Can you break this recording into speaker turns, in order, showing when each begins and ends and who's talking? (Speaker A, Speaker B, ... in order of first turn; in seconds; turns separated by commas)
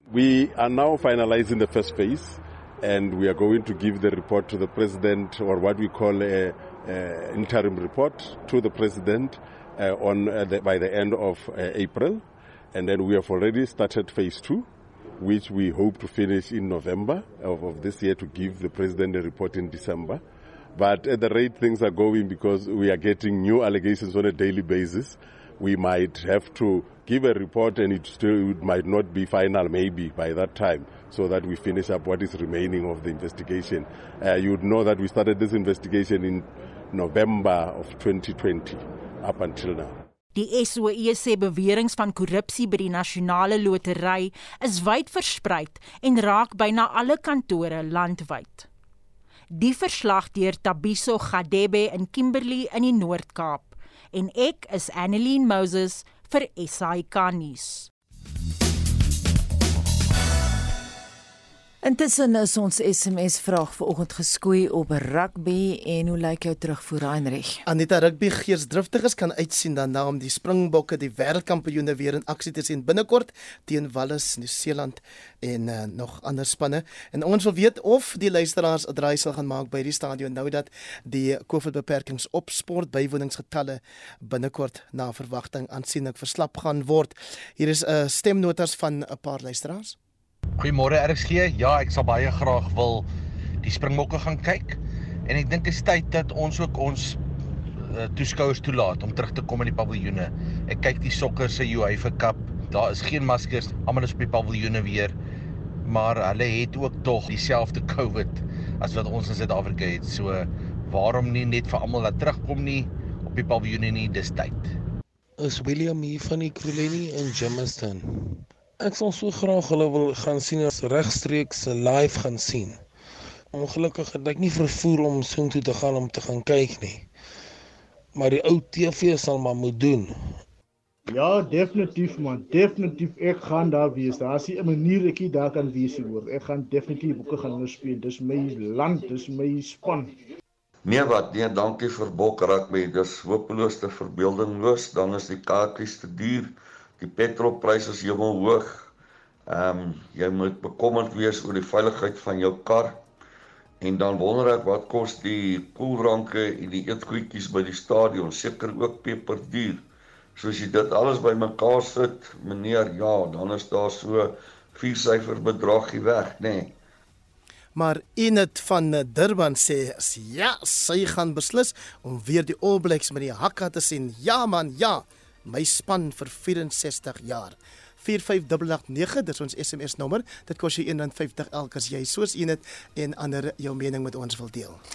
Speaker A: 0.1-20.2, Speaker A: 20.8-40.0, Speaker B: 40.3-48.7, Speaker B: 49.5-57.9, Speaker C: 61.8-67.6, Speaker D: 67.7-90.0, Speaker E: 90.6-93.1, Speaker E: 93.6-97.2, Speaker E: 97.8-105.1, Speaker E: 105.8-114.8, Speaker F: 115.4-122.8, Speaker F: 123.5-127.1, Speaker F: 128.2-130.4, Speaker G: 131.1-140.1, Speaker H: 140.8-148.9, Speaker H: 149.5-153.0, Speaker H: 153.8-159.8, Speaker H: 160.4-166.8, Speaker D: 167.8-184.8